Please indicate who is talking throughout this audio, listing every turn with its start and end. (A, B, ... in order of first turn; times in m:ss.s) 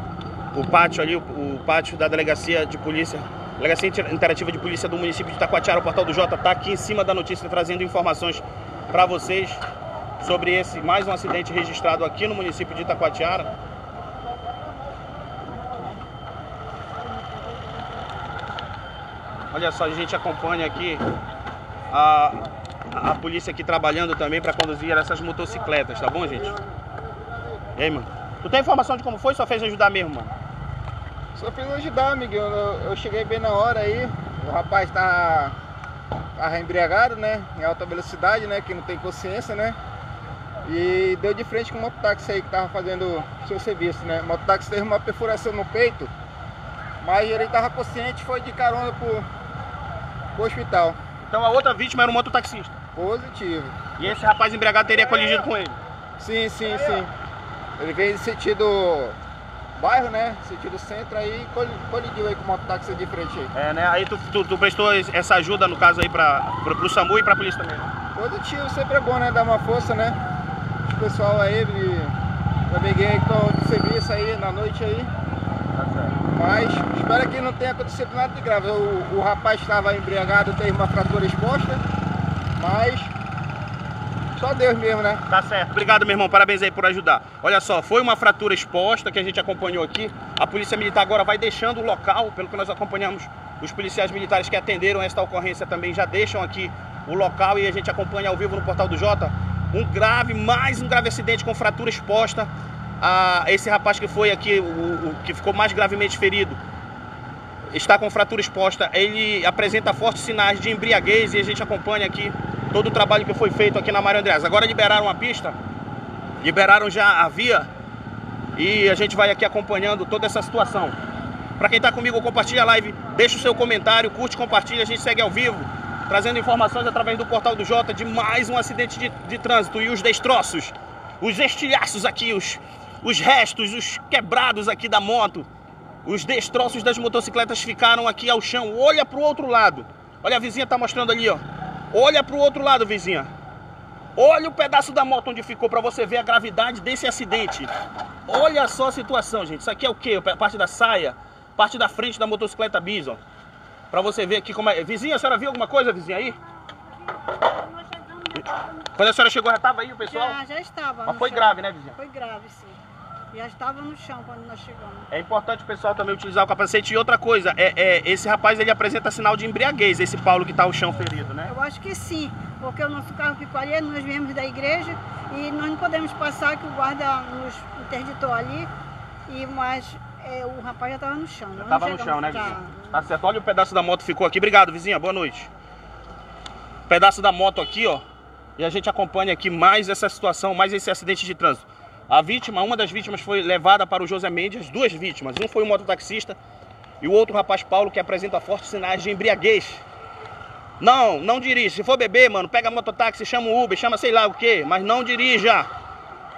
0:00.5-0:09.6 A
0:10.2-0:13.5 A
0:19.5-0:21.0 A
0:21.9-0:26.6 A
0:27.8-0:30.3 A
0:31.3-0:35.6 B
0:36.4-0:39.8 B
0:40.6-0:46.1 B
0:47.0-0:49.3 B
0:50.3-0:51.0 B
0:51.2-0:52.8 A
0:53.0-0:53.8 B
0:54.0-0:55.8 A
0:56.2-0:57.1 B
0:57.8-0:59.2 B
0:59.8-1:03.5 B
1:03.5-1:07.9 A
1:08.1-1:10.2 B
1:10.9-1:12.1 B
1:12.7-1:15.1 B
1:15.7-1:16.2 A
1:16.3-1:21.8 B
1:22.6-1:23.1 B
1:24.4-1:25.2 B
1:25.3-1:42.5 A
1:43.0-1:46.6 A
1:47.7-1:55.6 A
1:56.4-1:57.7 A
1:58.6-2:01.0 A
2:01.6-2:15.5 A
2:16.0-2:23.3 A
2:24.2-2:27.7 A
2:28.3-2:33.2 A
2:33.9-2:36.4 A
2:36.6-2:38.7 C
2:38.8-2:40.4 A
2:40.0-2:42.8 C
2:41.0-2:42.0 A
2:43.3-2:45.1 C
2:45.1-2:51.5 A
2:51.5-2:58.7 C
2:59.3-3:03.0 C
3:01.6-3:05.5 A
3:06.9-3:08.0 A
3:08.6-3:16.4 A
3:17.0-3:19.8 A
3:20.8-3:25.7 A